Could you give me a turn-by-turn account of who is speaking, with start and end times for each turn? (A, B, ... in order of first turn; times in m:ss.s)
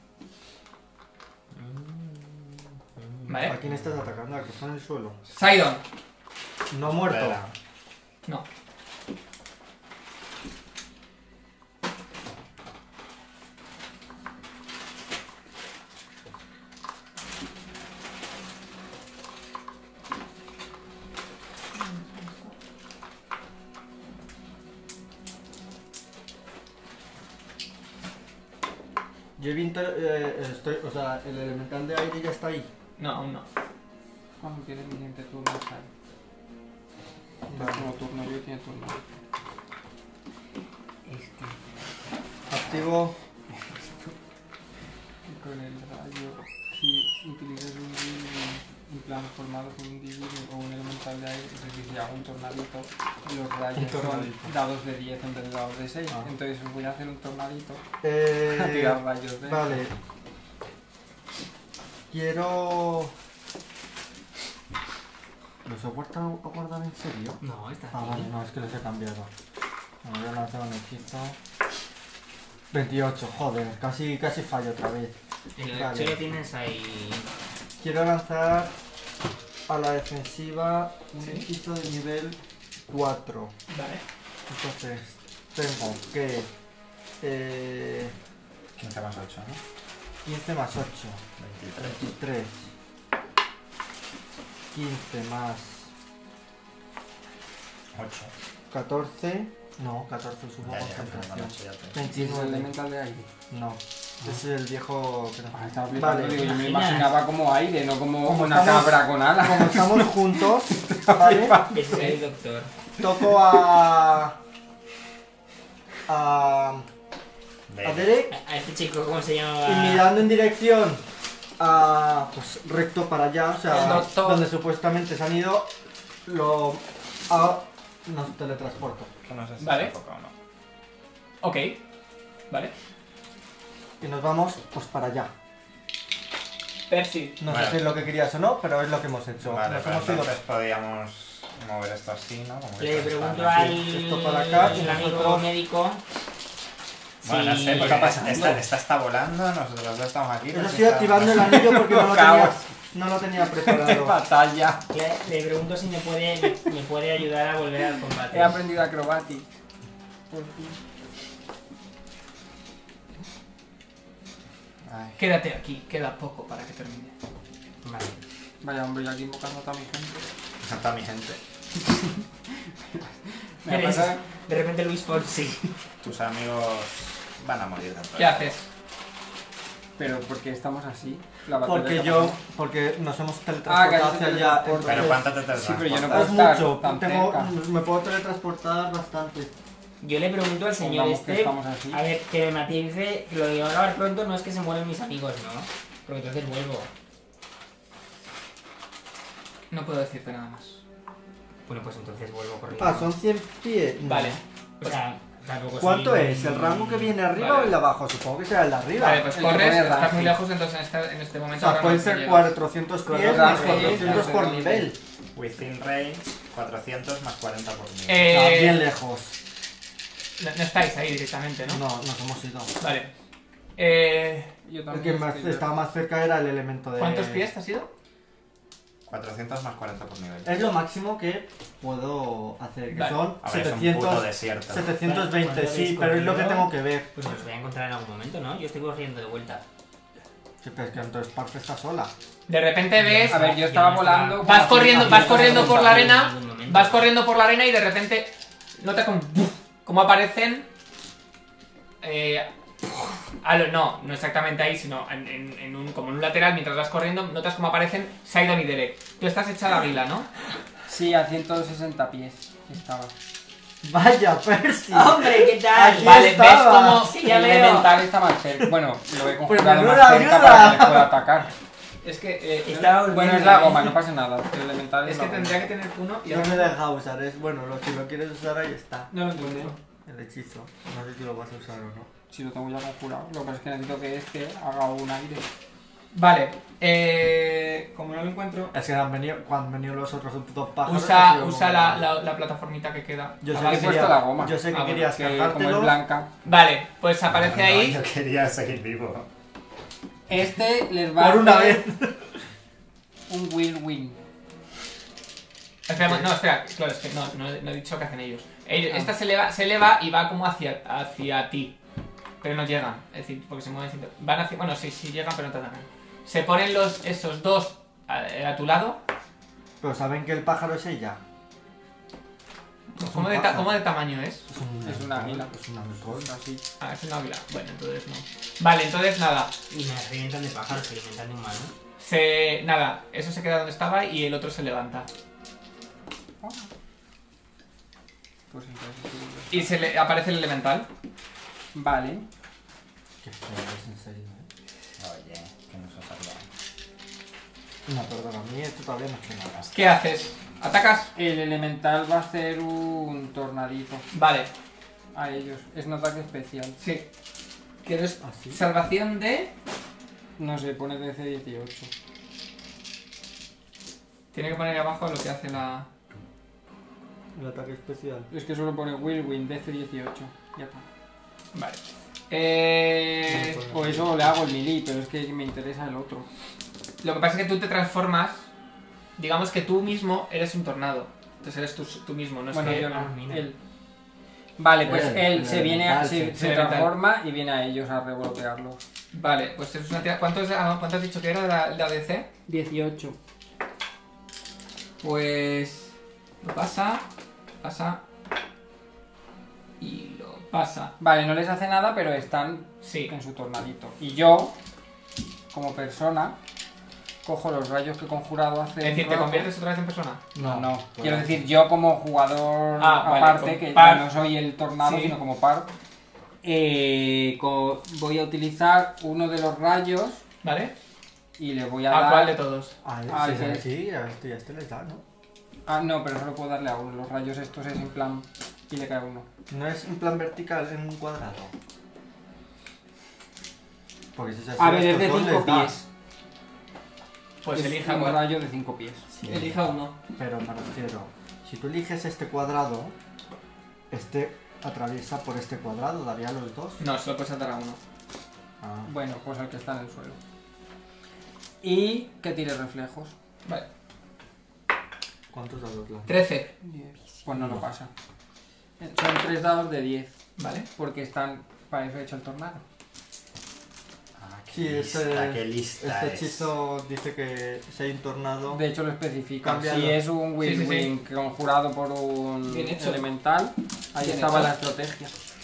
0:01.5-0:03.7 A
0:03.3-0:03.6 B
0:03.5-0:05.2 C
0:05.3-0:05.8 B
0:06.7-0:07.4 C
0:06.9-0:07.5 D
0:21.8-0:22.5 B
0:29.4-0:32.7 C
0:33.0-0:33.5 B
0:34.4-0:35.9 E
0:37.5-0:37.9 C
0:37.5-0:39.0 E
0:41.1-0:41.4 E
0:41.1-0:41.5 A
0:42.5-0:43.2 C
0:43.5-0:44.1 E
0:45.3-0:57.8 E
0:53.8-0:54.5 C
0:58.0-1:00.0 C
0:58.4-0:59.8 E
1:02.1-1:03.1 C
1:05.6-1:07.4 C
1:07.4-1:08.3 A
1:07.9-1:09.3 C
1:10.0-1:11.4 C
1:12.7-1:15.2 C
1:15.6-1:17.3 A
1:15.7-1:16.3 C
1:17.8-1:18.7 C
1:19.7-1:22.4 C
1:21.2-1:21.5 B
1:22.9-1:23.5 C
1:23.7-1:24.0 B
1:24.5-1:26.5 C
1:27.2-1:28.2 C
1:28.8-1:29.6 D
1:30.2-1:31.2 C
1:31.4-1:32.0 D
1:31.8-1:32.6 C
1:34.7-1:35.9 C
1:37.9-1:38.3 D
1:38.7-1:42.7 C
1:40.6-1:42.0 D
1:42.0-1:43.3 E
1:43.5-1:46.5 C
1:45.5-1:52.1 E
1:46.3-1:47.2 A
1:48.2-1:51.6 C
1:51.7-1:52.7 A
1:53.0-1:54.4 C
1:56.1-1:56.9 C
1:57.7-1:58.1 D
1:57.8-1:58.4 C
1:58.3-2:00.1 A
1:59.6-2:01.0 C
2:01.6-2:05.7 C
2:03.7-2:04.4 B
2:06.3-2:09.1 C
2:09.2-2:10.3 D
2:09.6-2:09.9 B
2:11.4-2:11.8 B
2:14.0-2:15.3 C
2:16.9-2:17.4 B
2:17.4-2:20.4 C
2:17.5-2:18.0 D
2:19.4-2:23.8 D
2:22.8-2:26.0 A
2:23.5-2:25.5 C
2:27.2-2:28.6 A
2:27.2-2:31.6 D
2:27.8-2:28.6 E
2:30.5-2:34.2 C
2:31.4-2:32.7 E
2:33.6-2:34.8 E
2:34.9-2:38.6 A
2:38.3-2:39.5 E
2:40.3-2:40.8 E
2:44.9-2:45.2 D
2:45.2-2:47.1 B
2:47.8-2:48.2 A
2:48.6-2:50.3 E
2:50.6-2:51.4 D
2:51.9-2:54.2 E
2:53.7-2:55.7 A
2:56.0-2:58.5 D
2:58.2-2:58.7 B
3:00.0-3:02.4 E
3:01.6-3:05.3 C
3:03.7-3:07.5 E
3:04.8-3:06.4 D
3:06.1-3:09.5 C
3:10.0-3:16.9 A
3:10.8-3:12.0 E
3:19.7-3:20.8 B
3:21.7-3:23.1 A
3:22.8-3:24.4 C
3:24.0-3:25.0 B
3:24.8-3:27.2 A
3:25.8-3:29.2 C
3:27.4-3:27.8 B
3:29.0-3:32.6 B
3:29.3-3:30.4 E
3:31.6-3:35.0 C
3:33.1-3:34.9 E
3:33.4-3:34.2 A
3:33.4-3:34.0 B
3:35.4-3:38.4 D
3:38.1-3:38.9 B
3:38.2-3:39.4 C
3:40.4-3:41.8 B
3:41.6-3:42.7 C
3:42.8-3:43.1 B
3:43.8-3:44.5 B
3:44.7-3:45.7 E
3:44.9-3:47.5 C
3:47.0-3:47.9 B
3:49.1-3:50.5 D
3:50.4-3:57.1 C
3:52.9-3:53.3 B
3:53.4-3:54.9 D
3:55.0-3:59.6 A
4:00.6-4:02.1 C
4:02.5-4:03.4 B
4:03.0-4:07.0 A
4:03.2-4:06.2 E
4:04.4-4:10.7 B
4:12.0-4:12.5 B
4:13.4-4:20.3 B
4:20.9-4:23.1 E
4:23.8-4:27.1 C
4:24.9-4:26.3 A
4:26.0-4:27.9 B
4:26.9-4:27.9 A
4:27.5-4:31.5 E
4:29.4-4:31.2 C
4:32.0-4:33.2 B
4:32.6-4:34.0 A
4:33.0-4:35.7 E
4:35.0-4:36.7 B
4:36.3-4:39.1 C
4:39.1-4:39.8 B
4:39.2-4:39.7 E
4:40.0-4:42.1 C
4:42.3-4:45.5 E
4:46.1-4:48.7 B
4:48.7-4:52.0 C
4:50.8-4:54.1 B
4:53.4-4:56.0 C
4:53.5-4:56.3 E
4:54.7-4:55.1 B
4:56.4-4:58.0 B
4:57.3-4:59.3 D
5:00.3-5:01.9 E
5:01.2-5:02.3 C
5:03.3-5:04.2 E
5:05.9-5:11.8 B
5:06.0-5:06.3 C
5:12.4-5:19.0 B
5:19.8-5:21.2 C
5:23.0-5:24.5 B
5:23.0-5:23.8 C
5:24.5-5:26.3 C
5:24.8-5:25.5 E
5:26.0-5:26.6 E
5:26.8-5:29.5 B
5:29.7-5:31.7 A
5:32.0-5:35.1 B
5:36.4-5:36.7 E
5:38.5-5:39.7 E
5:39.5-5:40.9 B
5:41.7-5:42.3 E
5:43.2-5:44.5 C
5:45.0-5:46.5 D
5:47.9-5:49.6 C
5:49.7-5:51.1 B
5:51.2-5:54.1 E
5:54.1-5:54.5 B
5:55.1-5:56.8 E
5:56.8-5:57.1 B
5:57.8-5:59.5 B
5:58.2-5:58.6 C
6:00.4-6:01.9 E
6:04.3-6:05.9 B
6:07.4-6:08.3 C
6:08.3-6:10.9 E
6:11.5-6:13.6 B
6:13.3-6:14.2 C
6:13.6-6:16.3 E
6:17.0-6:18.4 B
6:19.2-6:22.9 B
6:22.5-6:23.6 E
6:22.6-6:23.4 A
6:24.6-6:28.8 E
6:24.8-6:26.4 C
6:26.4-6:26.9 B
6:29.1-6:32.3 B
6:32.5-6:33.2 E
6:35.0-6:37.0 B
6:37.6-6:38.0 B
6:39.8-6:40.9 B
6:41.0-6:44.6 E
6:42.8-6:43.1 B
6:45.5-6:46.4 E
6:47.2-6:49.5 E
6:48.8-6:50.2 B
6:50.4-6:51.4 C
6:50.4-6:55.7 E
6:52.8-6:54.1 B
6:54.8-6:55.2 B
6:56.4-7:00.2 E
7:00.4-7:00.7 B
7:01.4-7:02.4 E
7:01.9-7:02.8 B
7:02.8-7:05.0 C
7:03.1-7:03.7 E
7:05.7-7:09.3 E
7:09.5-7:11.5 C
7:14.2-7:15.8 C
7:14.6-7:15.9 E
7:17.4-7:18.2 B
7:17.5-7:19.1 E
7:19.1-7:19.6 C
7:19.2-7:20.0 B
7:20.2-7:23.0 C
7:23.9-7:26.8 C
7:26.8-7:27.8 B
7:28.6-7:28.9 C
7:28.8-7:30.2 E
7:31.6-7:33.1 E
7:35.3-7:36.1 C
7:36.1-7:36.5 B
7:36.6-7:37.9 E
7:37.3-7:37.6 C
7:38.8-7:40.2 E
7:40.4-7:40.7 B
7:40.8-7:42.6 E
7:44.2-7:46.5 D
7:44.5-7:48.6 C
7:48.5-7:55.1 E
7:49.4-7:50.0 C
7:50.4-7:50.9 B
7:52.5-7:53.0 B
7:54.0-7:54.5 B